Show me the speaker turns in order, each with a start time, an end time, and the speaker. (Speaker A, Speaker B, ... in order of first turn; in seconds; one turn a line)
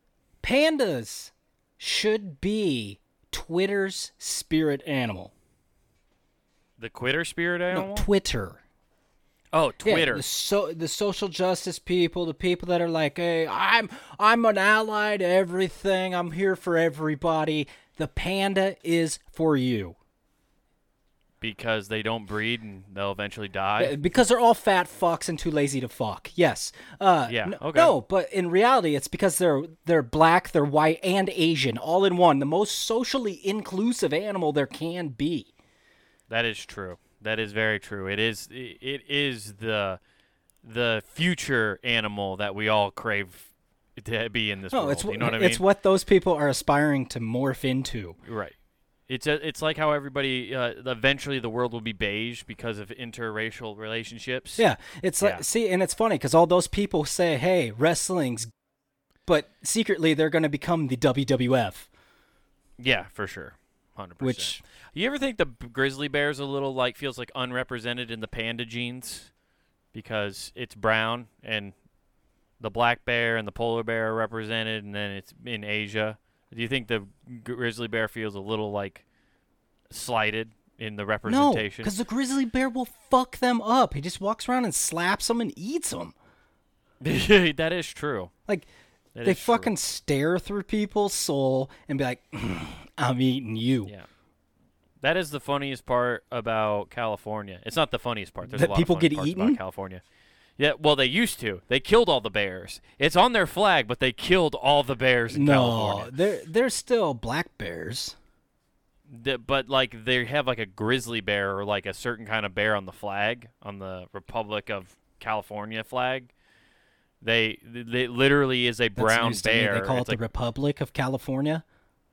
Speaker A: 0.4-5.3
Speaker B: 6.8-8.1
Speaker A: 7.7-8.6
Speaker B: 9.5-10.2
Speaker A: 9.8-20.0
Speaker B: 21.4-23.9
Speaker A: 23.8-35.5
Speaker B: 27.3-28.0
Speaker B: 36.3-40.0
Speaker B: 40.6-45.6
Speaker A: 44.7-48.2
Speaker B: 48.2-48.5
Speaker B: 49.1-54.6
Speaker A: 54.6-58.5
Speaker A: 59.3-61.9
Speaker B: 62.8-69.3
Speaker A: 64.2-64.6
Speaker B: 69.9-71.7
Speaker B: 72.6-79.0
Speaker B: 79.9-81.9
Speaker A: 81.3-86.1
Speaker B: 87.0-88.3
Speaker B: 89.2-89.7
Speaker A: 89.2-93.9
Speaker B: 95.0-100.0
Speaker A: 98.5-99.6
Speaker B: 100.6-106.1
Speaker A: 105.3-108.2
Speaker B: 109.1-116.3
Speaker B: 117.2-120.2
Speaker A: 119.0-121.6